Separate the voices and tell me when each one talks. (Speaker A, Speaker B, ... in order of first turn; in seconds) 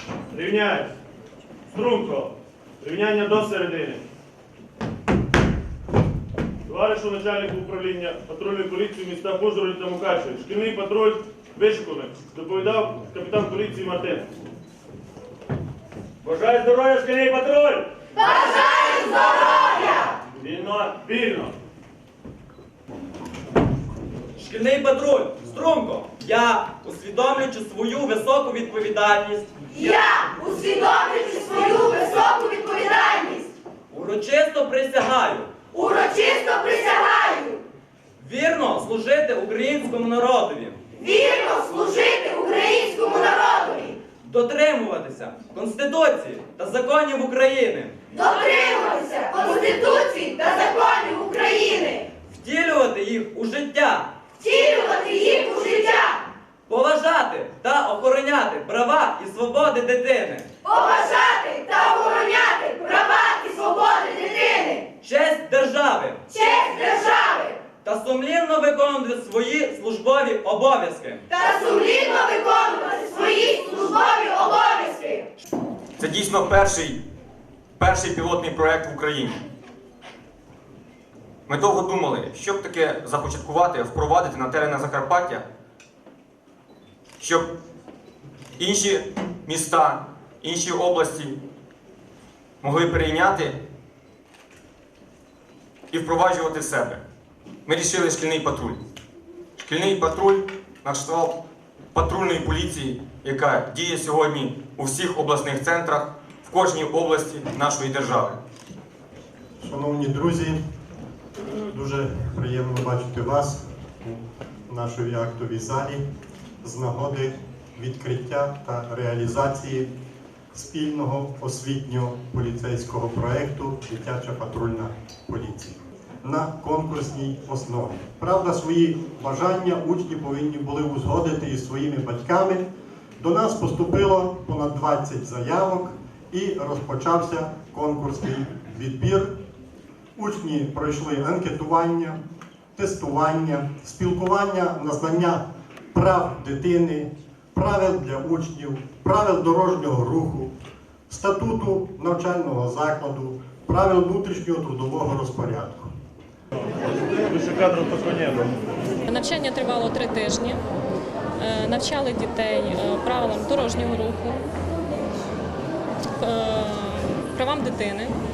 Speaker A: 0.3-0.9, 1.7-4.0, 6.7-14.3, 16.2-17.9, 20.3-21.5, 157.2-158.6
Speaker B: 18.5-20.0, 29.7-33.5, 35.7-37.6, 41.0-44.0, 48.1-52.1, 54.4-56.2, 60.6-64.9, 66.3-67.6, 71.3-75.3
Speaker C: 24.4-29.5, 33.9-35.5, 38.2-40.8, 44.2-48.0, 52.3-54.1, 56.7-60.5, 65.0-66.3, 67.8-71.2
Speaker D: 76.0-77.0, 77.8-79.4, 81.5-85.4, 87.2-87.5, 88.6-91.4, 92.6-93.5, 95.9-97.0, 97.7-98.8, 99.6-101.3, 101.9-108.3
Speaker E: 109.6-110.6, 111.6-116.0, 116.6-119.9, 120.5-132.7, 133.2-139.3, 140.2-142.2, 142.8-145.4, 145.9-150.5, 151.1-155.9
Speaker F: 159.1-160.6, 161.4-164.4, 166.2-168.2